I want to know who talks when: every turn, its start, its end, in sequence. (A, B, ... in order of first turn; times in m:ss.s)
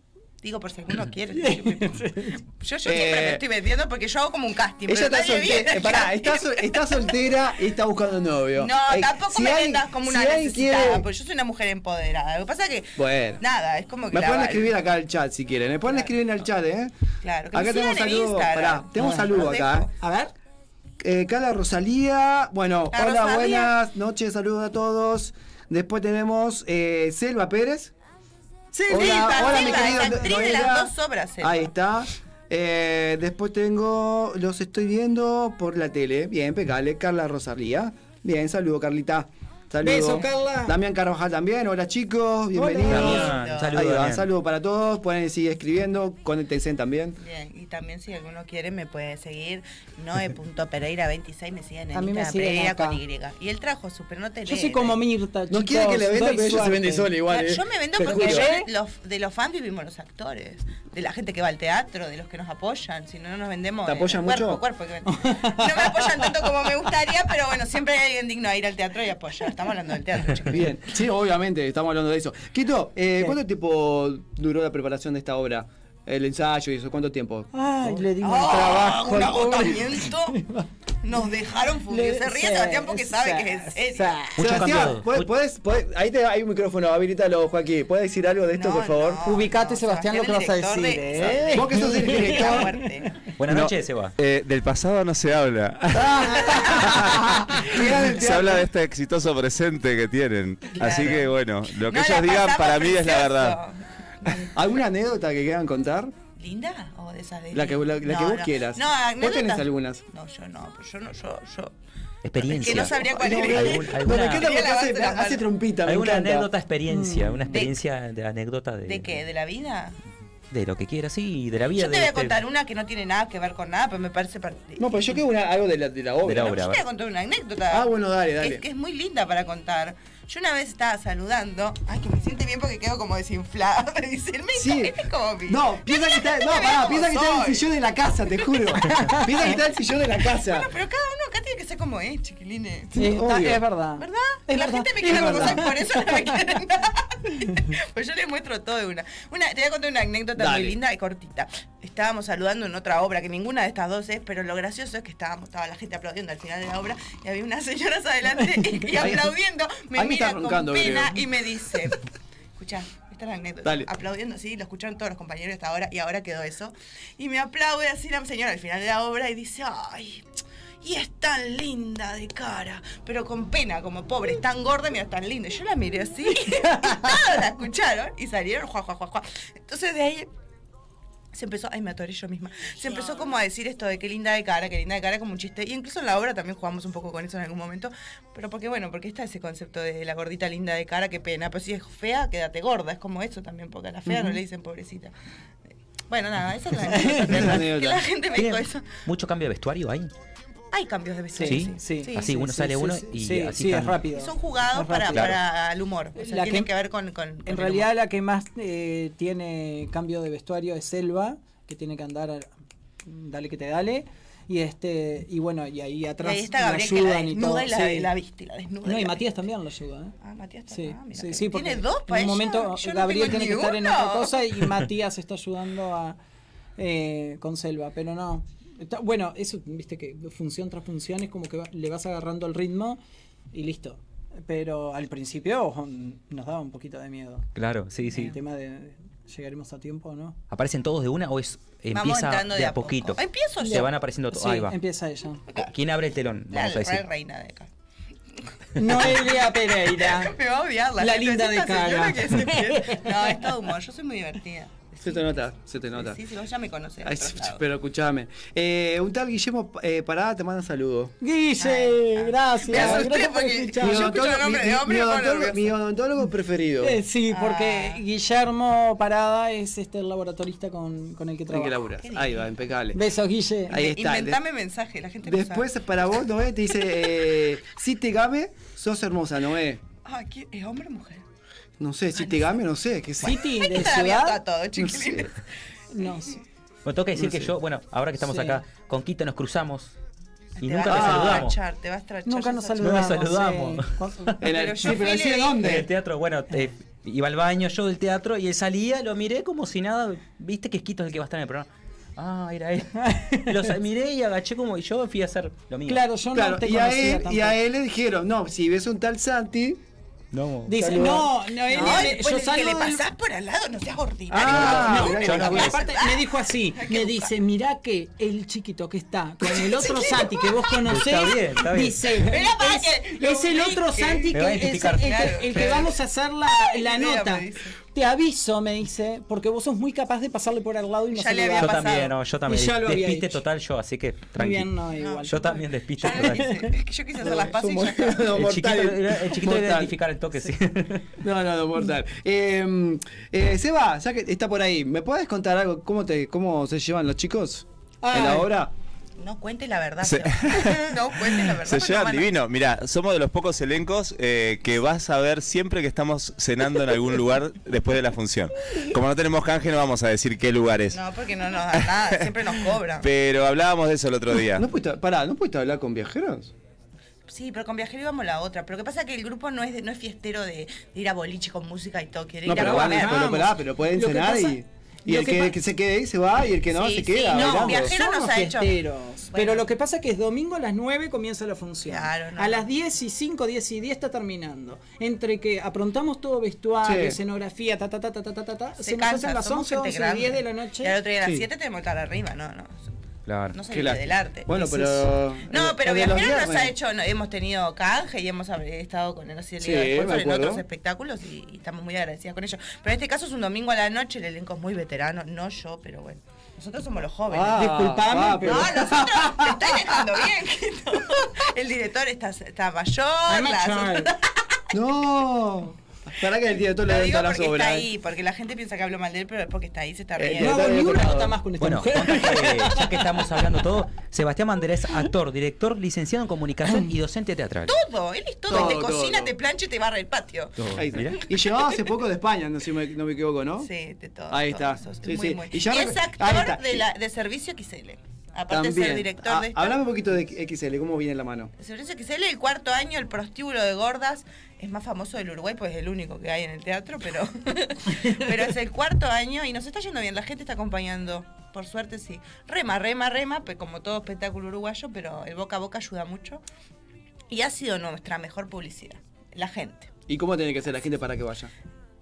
0:00.4-0:07.2 A
0:01.4-0:02.4 B
0:02.8-0:03.4 C
0:04.9-0:11.1 C
0:08.5-0:14.7 A
0:13.0-0:13.4 C
0:14.1-0:16.9 C
0:17.2-0:19.9 A
0:17.5-0:19.9 C
0:19.0-0:19.3 B
0:20.0-0:20.3 B
0:21.0-0:27.9 C
0:22.9-0:23.7 A
0:28.7-0:30.3 B
0:28.9-0:47.2 C
0:28.9-0:31.7 A
0:39.8-0:40.8 B
0:42.5-0:43.2 B
0:42.8-0:43.8 A
0:42.9-0:44.3 D
0:47.2-0:55.0 A
0:51.9-0:53.0 B
0:54.5-0:57.1 B
0:55.5-0:58.5 C
0:57.3-1:10.7 A
0:58.0-0:58.7 B
1:03.9-1:04.6 C
1:05.0-1:06.5 B
1:10.5-1:18.0 C
1:17.5-1:20.7 B
1:18.2-1:20.4 A
1:21.0-1:24.2 A
1:21.9-1:24.7 B
1:24.4-1:25.3 D
1:24.4-1:29.2 C
1:28.5-1:33.2 A
1:29.2-1:32.8 B
1:31.5-1:32.7 C
1:33.4-1:34.1 D
1:33.5-1:43.6 E
1:35.9-1:38.7 C
1:40.8-1:44.5 A
1:44.5-1:46.1 C
1:46.4-1:51.7 A
1:47.5-1:50.0 C
1:52.2-1:54.5 D
1:52.4-1:55.5 A
1:52.6-1:56.5 C
1:55.8-1:59.2 D
1:56.9-1:57.5 B
1:58.8-2:00.0 A
2:00.5-2:02.4 D
2:01.7-2:05.2 A
2:04.8-2:06.6 C
2:06.2-2:06.8 D
2:06.4-2:17.6 A
2:07.7-2:08.6 C
2:14.5-2:15.0 C
2:15.5-2:20.7 C
2:18.9-2:19.3 B
2:20.4-2:23.2 A
2:23.0-2:26.4 B
2:23.0-2:23.6 C
2:24.0-2:42.0 A
2:25.0-2:25.6 C
2:30.4-2:30.8 C
2:39.0-2:39.3 C
2:40.0-2:41.2 C
2:42.6-2:50.2 A
2:43.6-2:43.9 C
2:50.8-3:00.3 A
3:01.3-3:15.1 A
3:14.1-3:14.4 B
3:16.1-3:19.0 A
3:16.9-3:17.2 B
3:17.1-3:18.0 C
3:18.3-3:20.1 D
3:20.7-3:22.3 A
3:21.3-3:25.3 B
3:21.4-3:24.0 D
3:24.1-3:27.9 A
3:25.1-3:25.4 D
3:26.2-3:26.7 B
3:27.5-3:32.5 B
3:33.0-3:38.1 B
3:36.2-3:39.4 A
3:38.8-3:40.1 B
3:40.2-3:44.5 A
3:40.7-3:46.2 B
3:46.8-3:53.0 B
3:53.5-3:57.5 B
3:57.6-3:58.4 D
3:58.1-4:00.4 B
4:00.5-4:04.8 D
4:01.9-4:03.8 A
4:03.6-4:05.4 B
4:05.6-4:07.0 D
4:06.5-4:07.7 A
4:08.8-4:10.3 B
4:08.8-4:15.4 A
4:11.0-4:13.4 B
4:15.0-4:16.2 C
4:15.9-4:17.6 A
4:17.0-4:21.2 C
4:21.2-4:24.2 B
4:21.6-4:25.7 A
4:22.7-4:23.1 C
4:23.8-4:27.0 C
4:26.8-4:31.8 B
4:27.3-4:28.0 A
4:31.5-4:33.0 C
4:32.0-4:32.5 A
4:32.9-4:33.8 B
4:33.7-4:34.4 C
4:33.7-4:35.7 A
4:35.2-4:39.8 C
4:40.0-4:41.2 A
4:41.8-4:43.4 C
4:42.2-4:42.6 A
4:43.2-4:44.4 B
4:43.2-4:45.4 A
4:44.8-4:45.2 C
4:45.9-4:46.4 B
4:46.8-4:49.9 D
4:47.2-4:47.5 C
4:48.2-4:48.6 B
4:50.6-4:53.2 A
4:50.6-4:51.6 D
4:50.8-4:51.5 C
4:52.2-4:54.4 B
4:52.8-4:54.3 D
4:54.4-4:55.9 C
4:54.5-4:55.7 A
4:55.6-5:06.0 D
5:03.0-5:03.7 B
5:05.9-5:07.6 B
5:06.3-5:09.8 C
5:10.3-5:11.2 D
5:10.7-5:13.0 B
5:10.7-5:11.3 C
5:11.7-5:17.3 A
5:14.3-5:15.7 C
5:14.4-5:15.8 D
5:14.8-5:31.9 B
5:19.4-5:20.7 A
5:20.8-5:22.1 D
5:22.1-5:26.0 A
5:24.3-5:25.8 D
5:26.6-5:27.8 A
5:31.1-5:32.2 A
5:31.6-5:36.6 D
5:32.5-5:33.4 B
5:34.4-5:35.5 B
5:35.0-5:38.3 A
5:36.0-5:36.7 B
5:37.2-5:40.0 C
5:38.3-5:41.0 D
5:41.2-5:48.7 C
5:48.0-5:48.5 B
5:49.2-5:52.3 A
5:50.0-5:50.9 E
5:51.5-6:01.0 E
6:00.9-6:03.1 A
6:03.0-6:04.7 E
6:04.6-6:06.5 C
6:07.3-6:13.4 A
6:12.4-6:17.9 C
6:12.8-6:15.6 B
6:16.7-6:18.8 A
6:17.3-6:31.0 B
6:19.3-6:19.7 A
6:21.8-6:22.7 A
6:26.8-6:27.2 C
6:28.8-6:32.9 A
6:33.2-6:33.6 D
6:33.5-6:54.3 A
6:33.7-6:36.8 C
6:39.6-6:40.6 C
6:47.3-6:50.2 C
6:47.5-6:48.8 B
6:53.3-6:54.1 B
6:54.7-6:57.9 C
6:56.8-7:01.0 A
7:00.2-7:01.4 C
7:00.4-7:03.3 B
7:01.6-7:07.8 D
7:07.7-7:10.6 A
7:08.5-7:09.3 C
7:10.6-7:11.2 D
7:10.8-7:13.7 C
7:13.6-7:19.8 A
7:14.3-7:16.8 C
7:18.5-7:21.5 C
7:21.6-7:36.4 A
7:37.3-7:39.9 A
7:40.1-7:41.5 C